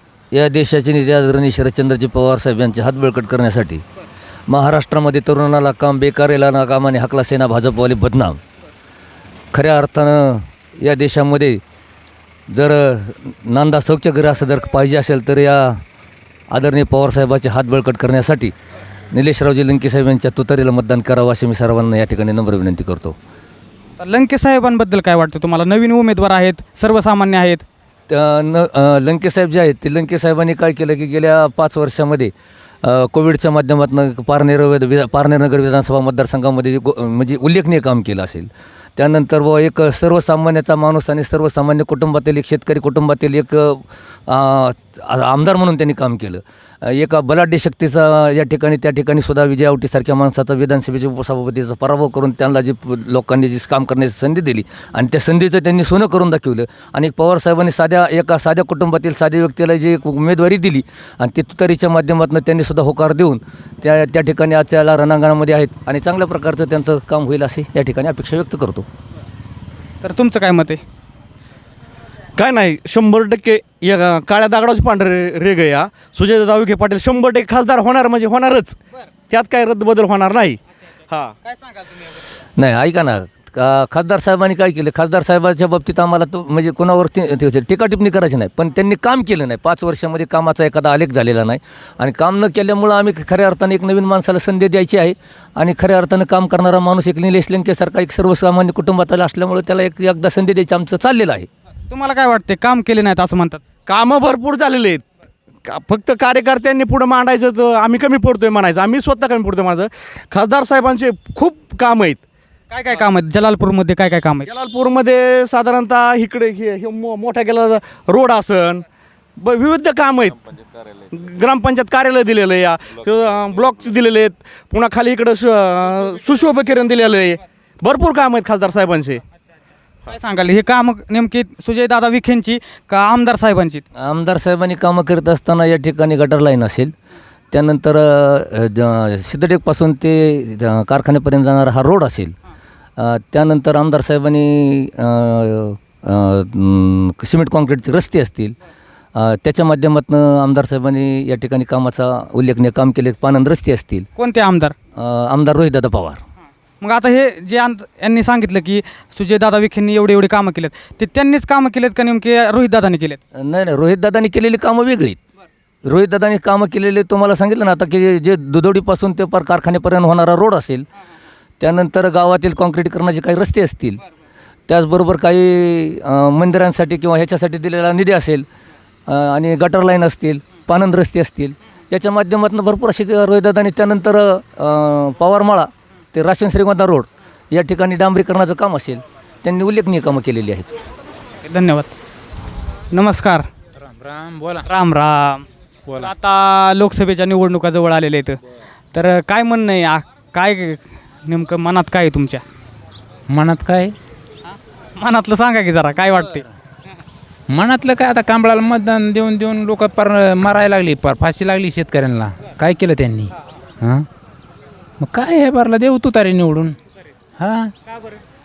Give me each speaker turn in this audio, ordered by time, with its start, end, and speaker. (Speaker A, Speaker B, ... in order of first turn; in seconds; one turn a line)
Speaker A: 0.3-3.8
Speaker A: 4.5-8.4
Speaker A: 9.5-11.6
Speaker A: 12.5-15.8
Speaker A: 16.5-18.5
Speaker A: 19.1-23.2
Speaker B: 24.0-27.6
Speaker A: 28.1-32.3
Speaker A: 32.8-68.9
Speaker B: 70.0-70.8
Speaker C: 72.3-81.3
Speaker B: 81.5-82.0
Speaker A: 82.6-101.5
Speaker B: 101.9-103.6
Speaker C: 103.8-105.0
Speaker C: 105.7-112.2
Speaker B: 112.7-114.5
Speaker C: 114.5-118.8
Speaker C: 119.4-120.4
Speaker C: 121.1-129.2
Speaker B: 130.1-133.8
Speaker A: 134.0-136.9
Speaker A: 137.5-142.3
Speaker A: 143.0-148.5
Speaker A: 149.1-154.1
Speaker B: 154.2-154.7
Speaker A: 154.9-156.2
Speaker B: 156.8-163.2
Speaker A: 163.3-165.2
Speaker A: 165.8-170.8
Speaker A: 171.6-174.0
Speaker A: 174.7-178.4
Speaker A: 179.1-190.7
Speaker B: 191.4-191.9
Speaker B: 192.9-193.5
Speaker D: 193.8-194.7
Speaker B: 194.7-195.4
Speaker B: 196.0-198.4
Speaker B: 198.9-202.4
Speaker D: 203.3-203.9
Speaker B: 204.5-206.4
Speaker D: 207.5-214.1
Speaker D: 215.0-216.8
Speaker D: 217.4-217.7
Speaker B: 217.9-218.2